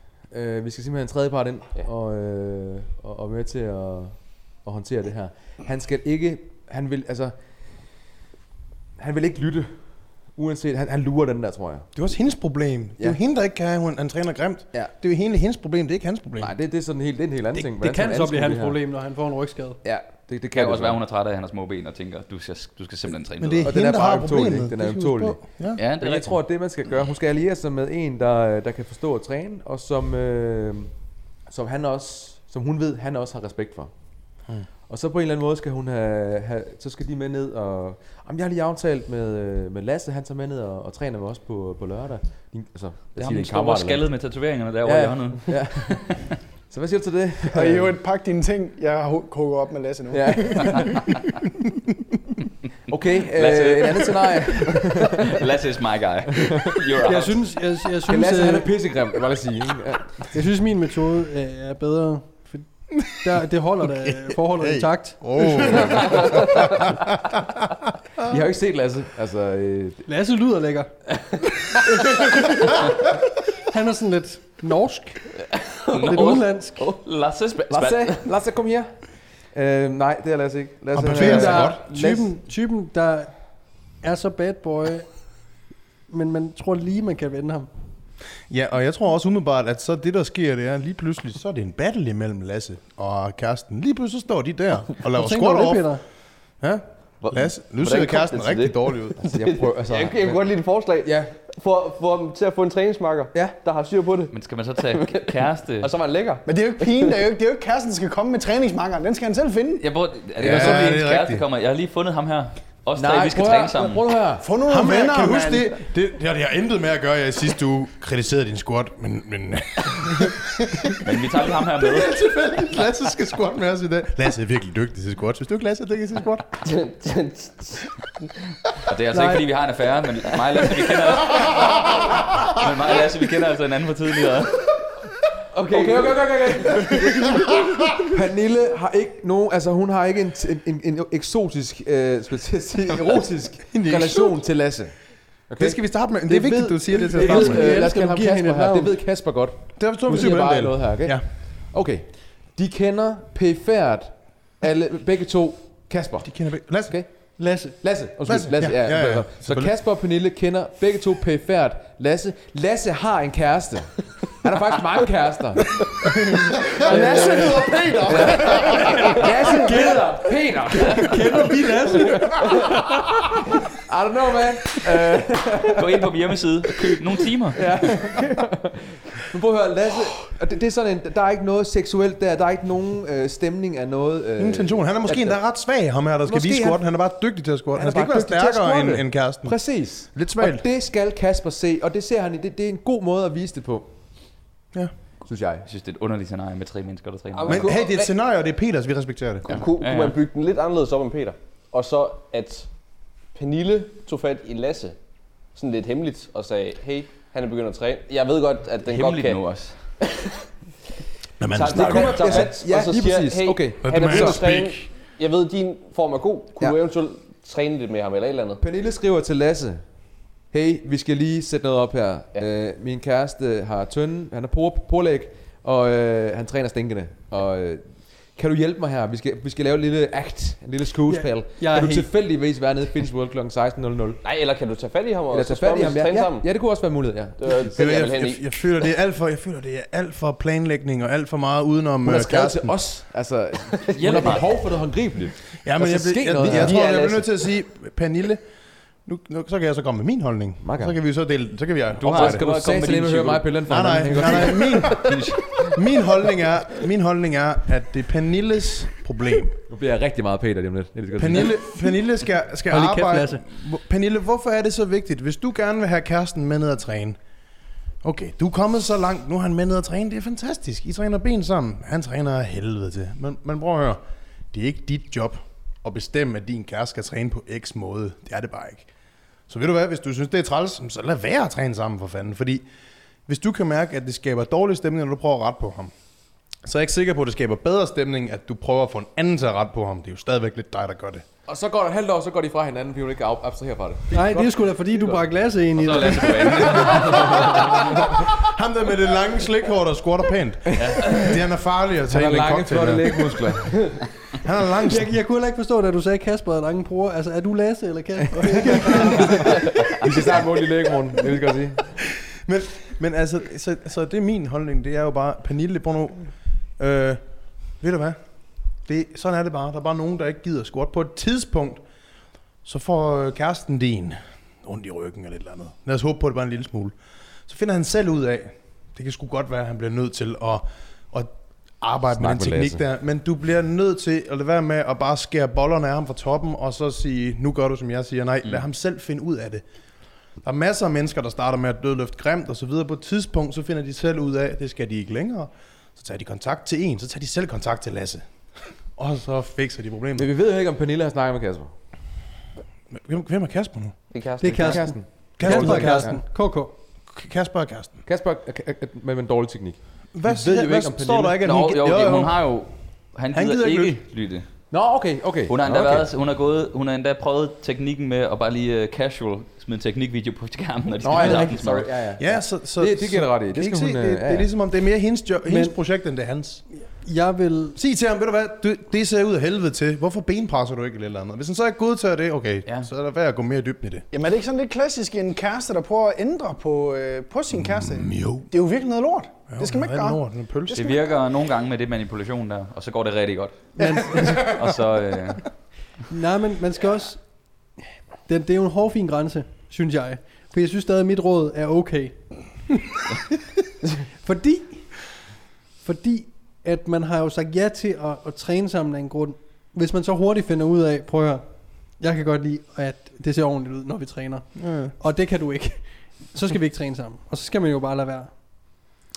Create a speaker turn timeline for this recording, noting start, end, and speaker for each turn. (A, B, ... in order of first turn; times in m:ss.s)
0:00.3-0:08.1 A
0:09.0-0:11.9 A
0:11.9-0:16.6 B
0:16.4-0:18.8 A
0:17.8-0:19.8 C
0:19.8-0:21.0 A
0:20.5-0:23.7 D
0:23.4-0:25.8 B
0:23.6-0:48.0 A
0:25.7-0:26.8 D
0:43.2-0:46.3 D
0:47.4-0:51.2 E
0:50.1-0:51.1 A
0:52.9-0:55.3 A
0:53.3-0:57.7 D
0:57.0-0:58.7 C
0:58.1-1:00.3 A
1:00.3-1:05.8 C
1:04.0-1:06.3 B
1:08.2-1:10.0 A
1:10.0-1:10.9 C
1:13.6-1:16.9 C
1:15.9-1:18.2 D
1:17.7-1:22.3 A
1:20.9-1:21.8 B
1:21.1-1:27.7 C
1:28.5-1:39.3 B
1:35.2-1:36.0 C
1:37.8-1:38.7 F
1:39.2-1:41.4 A
1:39.2-1:45.3 F
1:43.3-1:43.6 A
1:44.3-1:45.9 D
1:45.8-1:47.2 F
1:46.4-1:50.1 E
1:49.8-1:54.3 D
1:50.4-1:50.9 A
1:50.4-1:51.4 B
1:53.0-1:54.5 A
1:54.4-1:55.8 E
1:54.5-2:00.5 B
2:01.0-2:02.8 D
2:01.8-2:06.5 B
2:06.6-2:07.9 F
2:08.7-2:14.8 D
2:09.1-2:09.5 C
2:15.5-2:46.1 A
2:15.6-2:16.6 F
2:23.7-2:24.4 B
2:25.6-2:27.8 B
2:27.1-2:28.9 C
2:29.8-2:31.6 B
2:36.2-2:37.3 B
2:37.4-2:37.8 C
2:38.2-2:39.7 B
2:46.7-2:51.4 A
2:46.9-2:52.5 C
2:46.9-2:49.0 E
2:53.8-2:56.1 A
2:55.8-2:57.7 D
2:57.5-3:05.7 A
3:04.4-3:10.6 B
3:06.2-3:07.1 A
3:07.7-3:14.6 A
3:14.7-3:15.0 B
3:15.2-3:15.7 A
3:15.6-3:17.7 D
3:17.3-3:18.1 F
3:17.5-3:19.5 B
3:19.4-3:30.1 F
3:19.5-3:20.2 D
3:28.8-3:30.0 D
3:31.4-3:32.4 B
3:31.5-3:38.6 F
3:31.6-3:34.5 A
3:33.8-3:34.9 B
3:38.6-3:54.2 A
3:51.1-3:52.1 C
3:54.2-3:58.6 F
3:55.3-3:58.1 A
3:57.7-4:03.0 B
4:02.0-4:07.6 A
4:04.0-4:04.7 D
4:04.0-4:04.4 F
4:05.6-4:12.5 B
4:10.6-4:11.1 A
4:12.0-4:15.1 A
4:12.0-4:15.8 D
4:13.7-4:15.2 B
4:15.7-4:19.6 B
4:19.7-4:21.8 A
4:21.2-4:42.7 B
4:22.7-4:23.4 C
4:43.2-4:51.2 B
4:51.4-4:55.3 A
4:54.1-4:57.2 C
4:55.8-4:57.8 D
4:56.4-5:03.8 B
5:00.7-5:01.4 D
5:00.8-5:01.2 A
5:02.1-5:04.1 A
5:04.4-5:05.2 B
5:04.9-5:09.5 C
5:09.8-5:11.9 A
5:12.4-5:50.3 B
5:32.2-5:32.8 A
5:50.2-5:51.7 A
5:52.9-5:54.1 B
5:54.1-5:55.0 F
5:54.4-5:56.7 C
5:54.4-5:56.2 A
5:55.4-5:56.3 B
5:57.0-5:58.0 B
5:58.0-6:01.4 A
6:00.1-6:02.7 B
6:01.4-6:12.0 D
6:03.3-6:04.0 B
6:04.7-6:06.1 A
6:11.0-6:14.5 A
6:11.2-6:11.6 C
6:12.2-6:16.6 B
6:15.4-6:15.8 C
6:16.7-6:17.8 C
6:17.7-6:24.0 B
6:24.1-6:30.8 E
6:27.5-6:28.5 B
6:29.5-6:31.0 B
6:30.7-6:35.9 D
6:33.8-6:34.5 C
6:36.1-6:42.7 C
6:44.1-6:58.8 C
6:54.5-6:54.9 B